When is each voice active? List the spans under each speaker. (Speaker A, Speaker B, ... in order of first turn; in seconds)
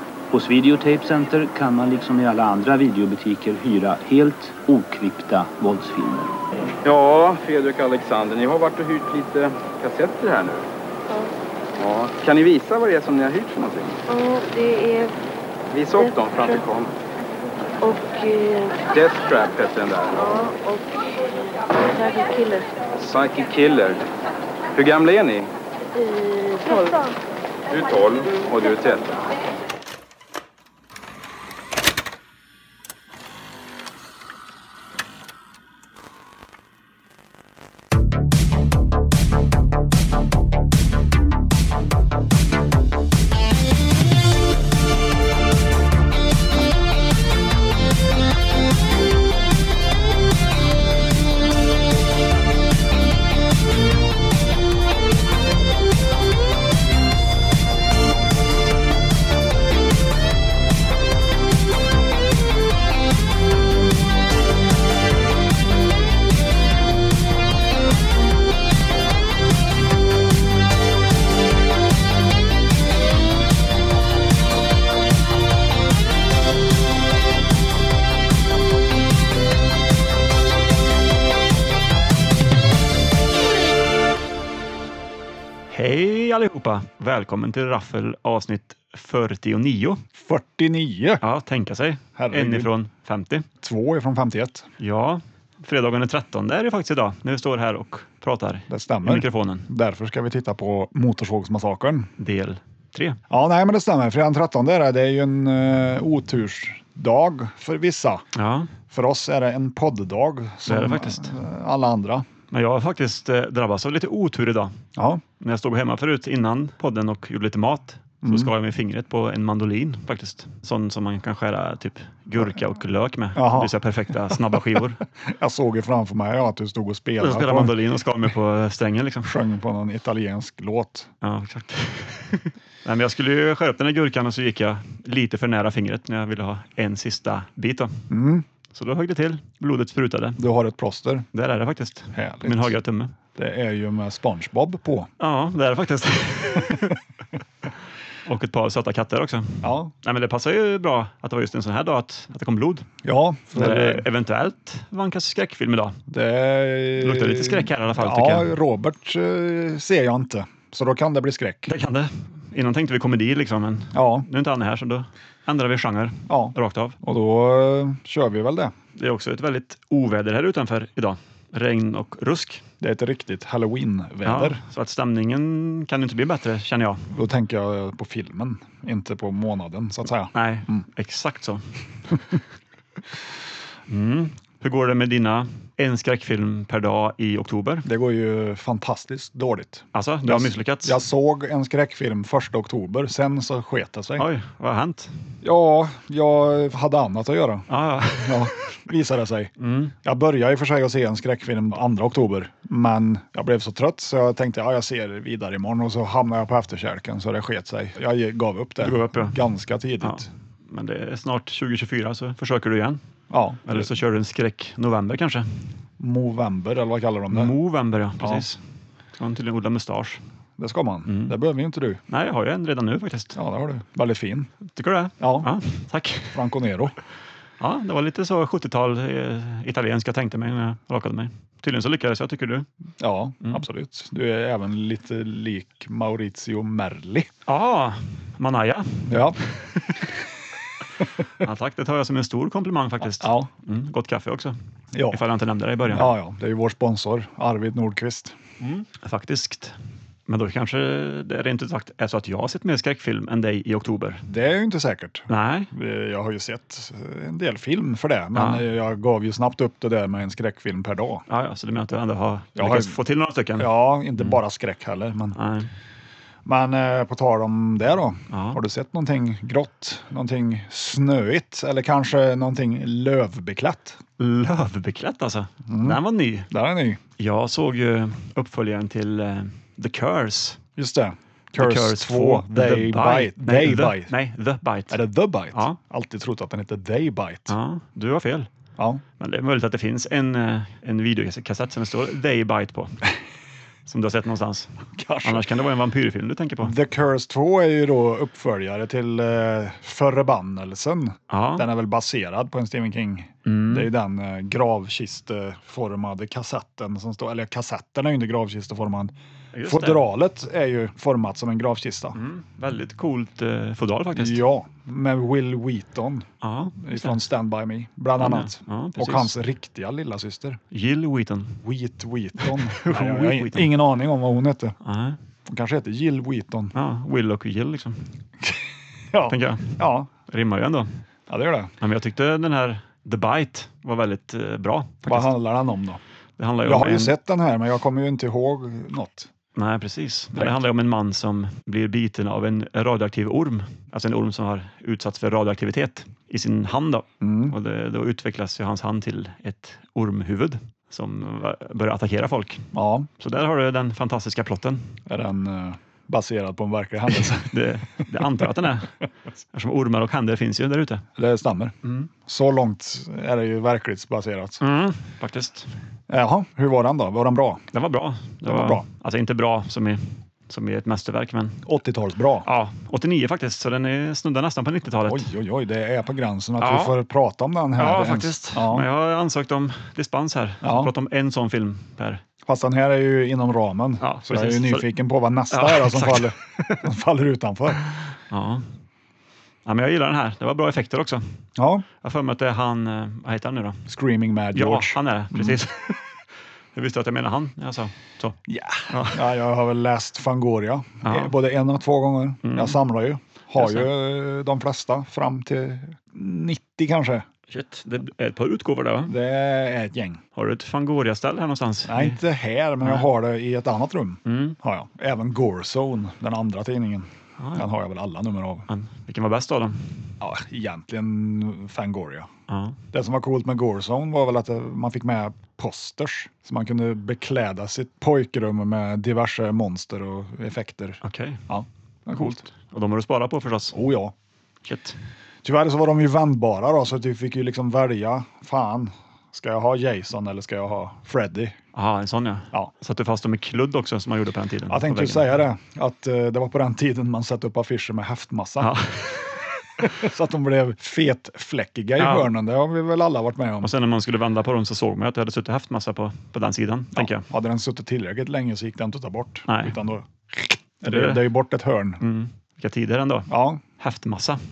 Speaker A: 0.3-6.3
Speaker B: 6.8-10.7, 11.8-14.0, 15.7-16.9, 18.9-20.5, 22.9-24.0, 24.7-25.5, 27.7-29.2
Speaker C: 14.1-15.1, 15.9-16.6, 17.8-18.9, 20.1-22.7, 25.9-27.1
Speaker D: 85.7-90.0, 91.2-93.5, 94.8-99.7, 102.2-103.2, 108.3-108.7, 110.7-111.3, 112.5-114.8, 115.4-125.0, 127.2-129.3, 131.2-138.1, 138.7-140.4, 141.3-143.1, 145.2-147.0, 148.2-152.9, 153.5-156.0, 157.0-158.5, 161.7-167.0, 168.9-172.6, 174.2-177.1, 180.3-182.2, 183.9-187.8, 189.9-191.0, 194.2-195.2, 197.7-198.8, 199.6-199.9, 208.8-209.4, 210.0-213.0, 213.6-215.6, 217.3-218.6, 219.2-220.2, 221.1-221.3, 222.1-223.4, 224.7-226.4, 227.6-232.7, 237.4-240.1, 241.3-244.6, 245.1-246.1, 248.6-249.7, 250.3-254.2, 255.3-255.7, 258.3-258.6, 261.3-264.4, 265.3-265.7, 268.3-268.6, 274.2-276.5, 277.2-280.6, 281.6-285.0, 285.5-285.8, 287.5-288.5, 289.2-293.0, 293.9-296.7, 301.3-301.7, 303.4-303.9, 309.5-310.1, 312.1-314.4, 316.4-317.2, 318.2-319.3, 320.7-321.6, 322.4-323.7, 324.8-325.2, 326.7-328.1, 329.3-330.9, 331.8-335.3, 336.4-337.1, 339.5-355.0, 357.2-358.9, 359.5-361.0, 361.8-362.1, 364.6-365.7, 367.7-371.6, 372.4-375.3, 376.6-376.9, 377.8-382.2, 384.0-384.9, 385.5-386.3, 388.3-388.6, 389.6-391.4, 392.0-393.8, 394.5-396.0, 396.7-399.3, 401.0-401.3, 402.4-402.8, 403.5-403.9, 407.5-409.1, 410.3-412.2, 414.2-414.6, 417.4-417.6, 418.7-420.0, 422.5-422.8, 431.0-431.4, 432.2-433.8, 434.6-435.0, 441.7-445.3, 448.6-449.9, 452.0-452.3, 453.6-457.3, 459.5-459.7, 460.9-461.3, 462.0-464.4
Speaker E: 90.1-91.2, 92.2-92.7, 93.6-94.7, 98.7-102.1, 103.3-108.2, 108.9-112.2, 115.0-115.2, 118.2-118.5, 123.3-123.7, 124.3-127.8, 129.2-131.1, 138.1-138.4, 140.4-141.2, 142.1-142.8, 143.3-145.1, 149.6-149.9, 153.0-154.1, 156.1-161.7, 163.9-164.3, 166.3-168.7, 172.8-174.6, 177.1-180.8, 187.8-194.2, 195.4-197.7, 198.2-199.5, 200.0-210.3, 213.3-213.9, 216.0-217.5, 218.2-218.4, 220.6-222.0, 223.3-224.5, 225.2-225.5, 226.3-226.9, 233.0-237.3, 239.1-239.4, 243.1-243.5, 244.9-245.2, 245.9-248.3, 254.3-261.2, 262.6-262.9, 263.6-265.4, 266.4-274.0, 275.6-277.0, 280.8-284.1, 284.9-287.5, 294.9-295.5, 296.6-309.1, 309.6-312.2, 314.1-316.3, 316.8-320.6, 321.6-324.8, 325.4-326.7, 329.1-330.1, 331.3-331.7, 335.0-336.0, 336.6-339.3, 347.2-347.6, 352.7-353.1, 355.1-358.5, 361.2-361.7, 362.2-364.6, 366.1-367.6, 368.4-368.8, 371.6-372.5, 375.1-378.9, 380.6-380.9, 382.4-387.8, 391.6-391.8, 393.9-395.6, 398.5-407.3, 409.1-410.2, 411.9-418.7, 420.2-422.3, 422.9-432.4, 433.7-434.1, 435.4-441.6, 444.7-448.8, 449.8-453.7, 456.9-462.0, 463.3-463.6